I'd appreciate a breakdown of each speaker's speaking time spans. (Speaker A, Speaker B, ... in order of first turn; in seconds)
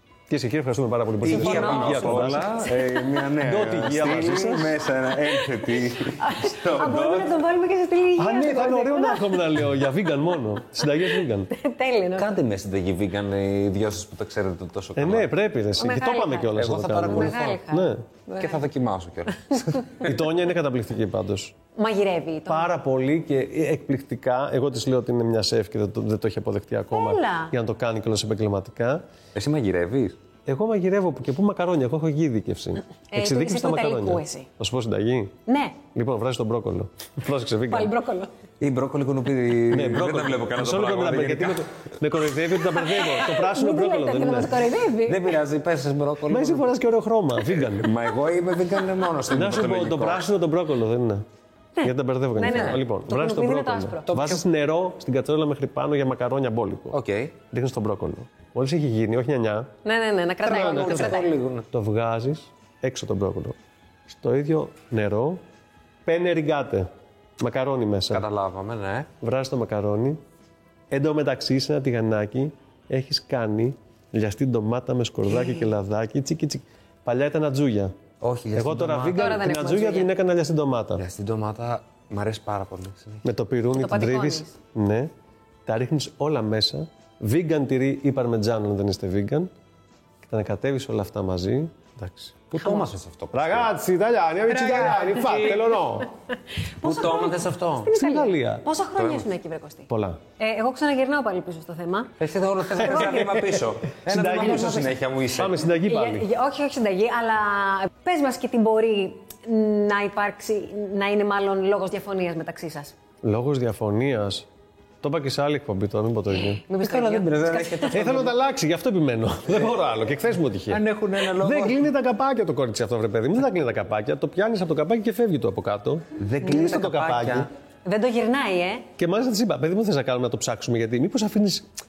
Speaker A: 0.3-2.6, 3.4-4.8, 8.2-11.5, 14.9-18.0, 20.0-21.5, 22.5-29.0, 30.4-35.3, 35.9-37.9, 39.7-44.7, 46.3-47.9, 49.3-51.2, 51.8-57.0, 57.5-59.7, 60.4-63.5, 64.1-65.4, 66.0-66.9, 67.4-68.2, 69.2-70.2, 70.9-77.9, 78.5-81.0, 83.2-85.1, 85.7-89.5, 90.2-92.4, 93.3-96.1, 97.9-98.7, 99.9-100.2, 102.8-106.3, 113.2-114.5, 115.0-116.6, 117.9-127.5, 129.0-131.7
Speaker B: 1.2-7.4, 12.2-15.3, 16.5-17.6, 18.4-20.1, 29.3-30.2, 38.6-41.6, 45.0-46.7, 47.5-50.2, 52.4-52.8, 54.1-54.4, 56.9-57.3, 60.5-61.7, 68.1-69.1, 78.2-79.4, 81.0-83.2, 92.5-93.7, 94.5-95.8, 96.8-97.9, 99.0-99.3, 102.2-105.6, 116.8-118.4, 120.7-121.9, 126.2-127.5
Speaker C: 1.2-2.7, 6.0-9.8, 10.9-12.3, 15.8-18.6, 21.8-22.7, 26.9-27.5, 33.1-34.5, 35.5-35.8, 37.7-38.3, 43.1-45.3, 51.8-54.1, 59.8-61.3, 79.1-80.1, 83.7-84.5, 96.8-102.1, 102.8-103.2, 104.3-104.9, 105.7-112.9, 116.5-118.1, 127.8-128.9